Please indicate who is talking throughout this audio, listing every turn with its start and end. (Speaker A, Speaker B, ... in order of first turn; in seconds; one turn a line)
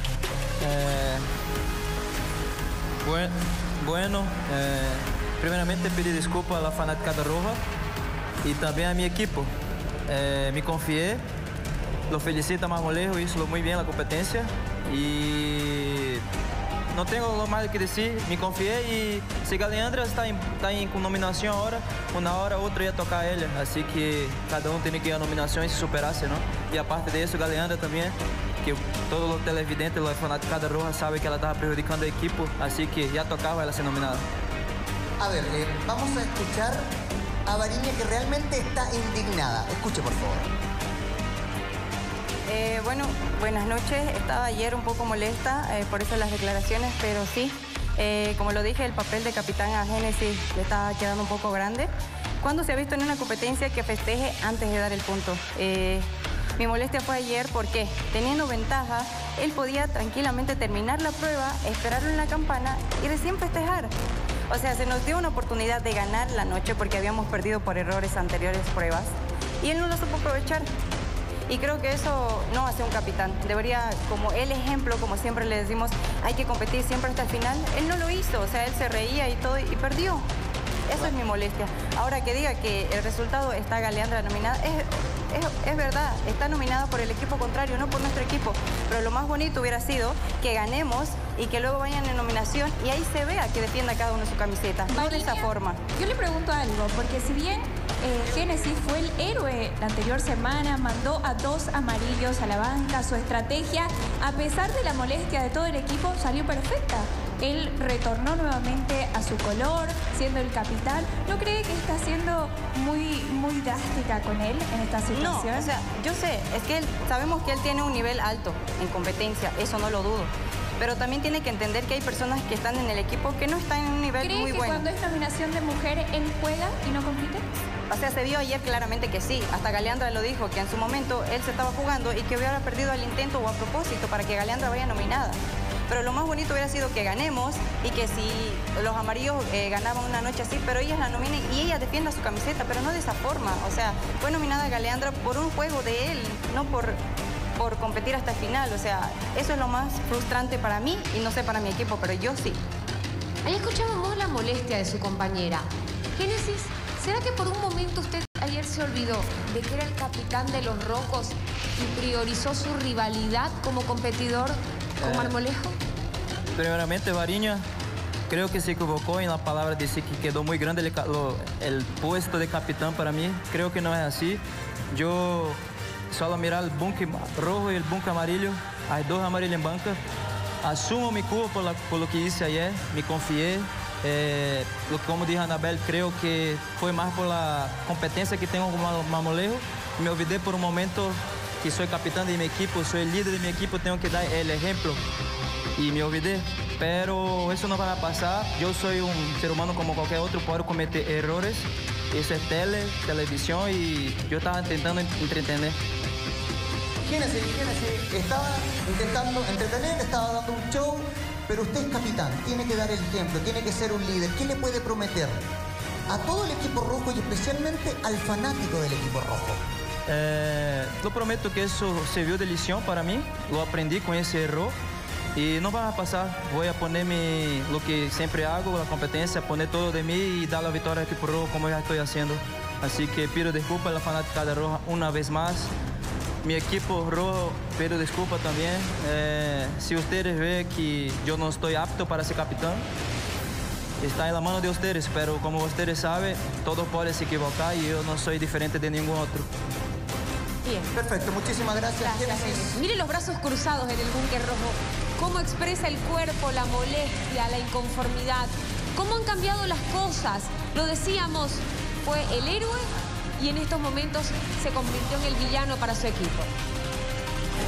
Speaker A: 0.6-1.2
Speaker A: 3.0-7.6
Speaker A: 8.4-9.5
Speaker A: 10.1-11.2
Speaker A: 12.1-16.2
Speaker A: 16.9-34.2
Speaker B: 35.2-36.8
Speaker B: 37.5-40.5
Speaker C: 42.5-51.9
Speaker C: 52.4-56.1
Speaker C: 56.6-63.9
Speaker C: 64.5-70.7
Speaker C: 71.5-80.2
Speaker C: 80.9-95.8
Speaker D: 94.9-115.7
Speaker C: 115.1-124.9
Speaker D: 124.2-127.4
Speaker C: 127.9-135.4
Speaker C: 135.9-147.0
Speaker C: 147.6-152.6
Speaker E: 153.4-165.8
Speaker A: 165.0-165.4
Speaker A: 166.5-167.6
Speaker A: 168.3-180.0
Speaker A: 180.6-195.0
Speaker A: 195.8-205.8
Speaker B: 207.0-215.4
Speaker B: 216.1-219.6
Speaker A: 220.1-224.8
Speaker A: 225.3-235.7
Speaker A: 236.4-242.8
Speaker A: 244.0-249.5
Speaker E: 250.6-250.9
Speaker B: 250.9-252.8
Speaker E: 252.0-262.9
Speaker E: 263.4-266.5